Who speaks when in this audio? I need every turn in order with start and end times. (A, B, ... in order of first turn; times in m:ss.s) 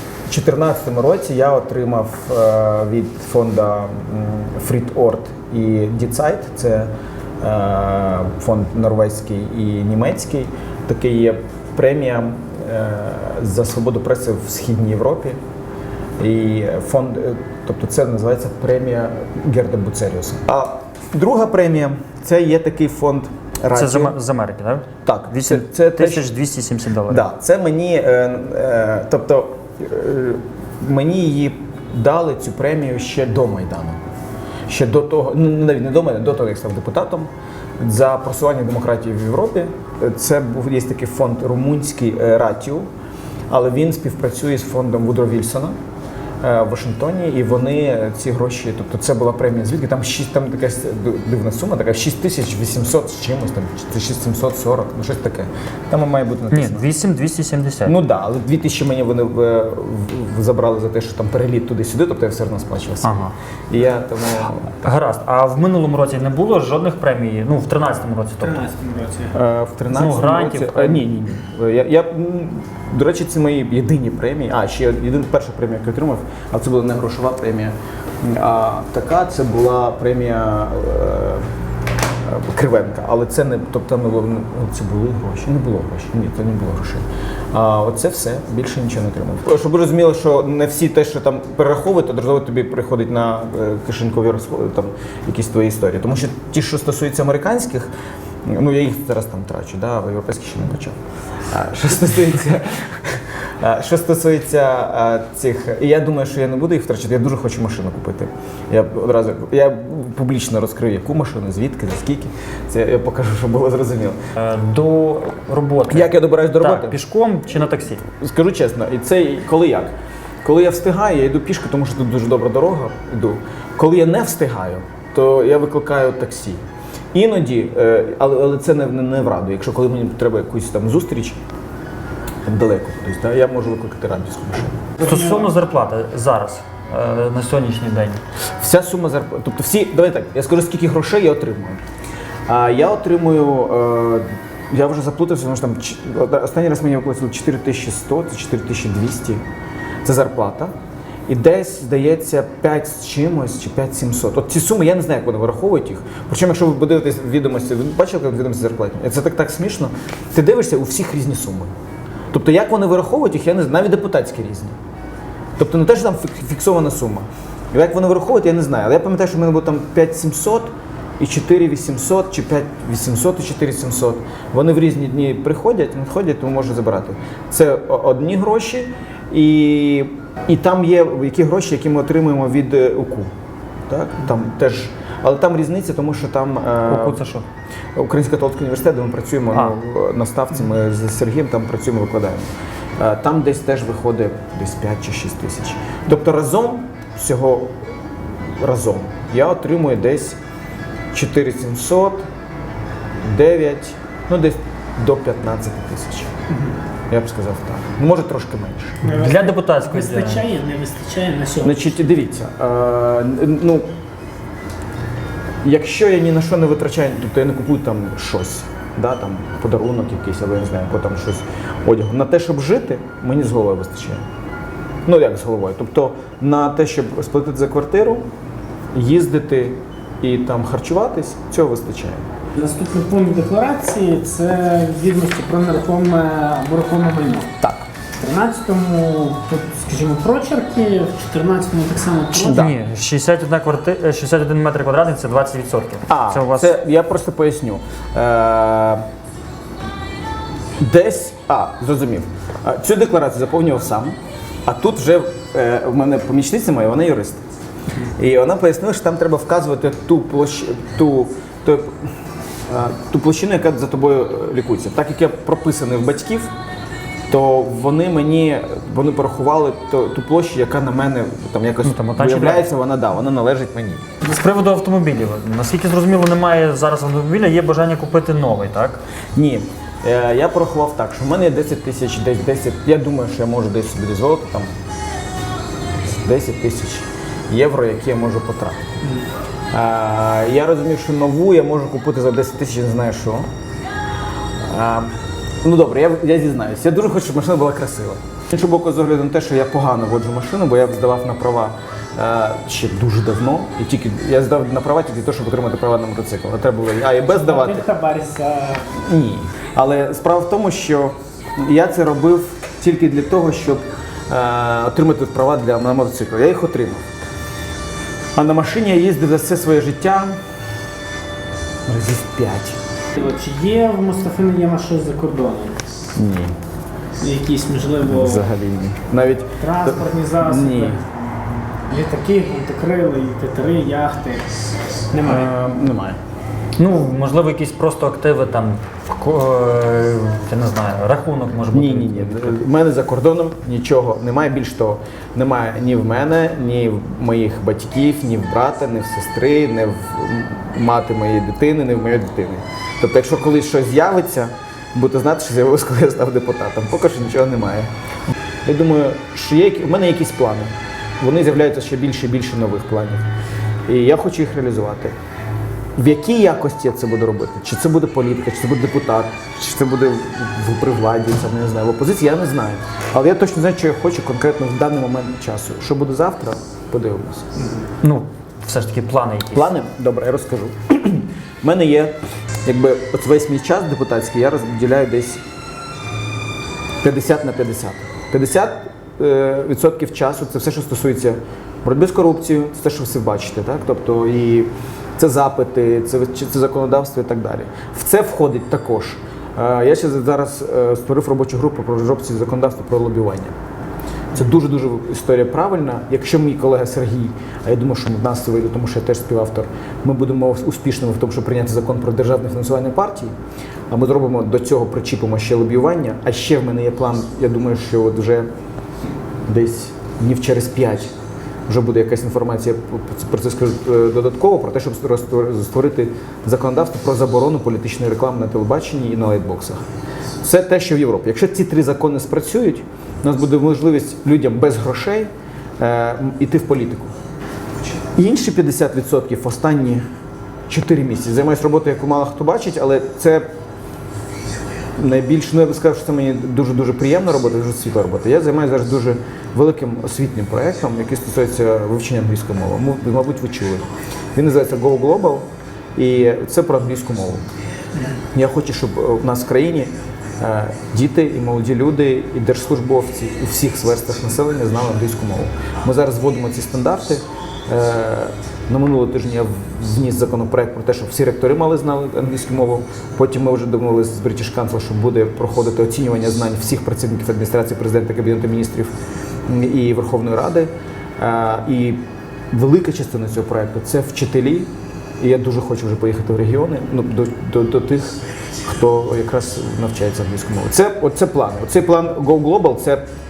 0:00.3-0:15.4 A
0:16.2-0:24.2 A
0:23.7-0:27.3 B
0:25.0-0:26.2 A
0:27.1-0:34.0 A
0:34.7-0:42.9 A
0:43.5-0:45.8 A
0:46.4-0:56.8 A
0:56.5-0:57.9 B
0:57.8-1:04.9 A
1:03.0-1:03.3 B
1:04.8-1:08.6 B
1:08.4-1:09.3 C
1:09.3-1:21.5 A
1:09.9-1:11.0 B
1:22.2-1:37.9 A
1:38.4-1:41.0 A
1:41.5-1:54.2 A
1:54.4-1:58.0 B
1:55.9-1:57.0 A
1:58.0-2:06.6 A
2:07.1-2:11.4 A
2:12.4-2:14.9 A
2:15.0-2:15.5 C
2:15.0-2:18.2 B
2:18.6-2:21.8 A
2:22.5-2:29.4 A
2:30.0-2:30.7 A
2:31.3-2:41.7 A
2:42.3-2:44.7 A
2:45.6-3:03.3 A
3:03.9-3:07.2 A
3:06.9-3:07.4 B
3:08.0-3:12.5 A
3:13.0-3:20.4 A
3:21.1-3:22.2 A
3:23.2-3:26.3 A
3:26.5-3:26.8 C
3:27.1-3:29.0 A
3:29.0-3:32.0 C
3:29.0-3:30.4 B
3:31.6-3:33.9 A
3:35.6-3:44.2 A
3:45.0-3:48.2 A
3:48.9-3:52.2 A
3:52.6-3:57.5 C
3:57.6-3:57.9 A
3:58.2-4:02.6 C
4:02.3-4:02.7 A
4:02.5-4:06.8 B
4:06.1-4:09.0 A
4:10.8-4:17.4 A
4:18.1-4:21.9 A
4:22.7-4:26.5 A
4:27.3-4:34.0 A
4:31.8-4:32.7 B
4:34.2-4:39.0 B
4:39.4-4:44.7 A
4:46.0-4:48.8 A
4:49.0-4:49.3 C
4:49.7-4:53.5 A
4:54.6-5:07.8 A
5:07.3-5:08.9 C
5:08.9-5:17.0 A
5:18.3-5:20.4 A
5:21.9-5:22.8 A
5:23.1-5:25.8 C
5:26.2-5:26.5 A
5:27.2-5:28.5 C
5:28.0-5:31.0 A
5:29.6-5:31.0 C
5:31.9-5:34.4 C
5:35.1-5:35.5 C
5:35.2-5:36.2 A
5:36.8-5:42.6 B
5:41.7-5:57.9 A
5:58.6-6:03.3 A
6:03.9-6:05.1 A
6:06.0-6:17.5 A
6:18.0-6:19.7 B
6:19.5-6:25.4 A
6:27.0-6:43.5 A
6:44.3-6:53.3 A
6:53.9-6:58.5 A
6:59.5-7:01.1 A
7:01.7-7:09.8 A
7:10.4-7:17.1 A
7:18.1-7:20.0 A
7:20.7-7:23.4 A
7:25.0-7:35.4 A
7:36.0-7:37.4 A
7:38.3-7:58.9 A
7:59.4-8:02.0 A
8:02.5-8:04.7 A
8:05.2-8:13.0 A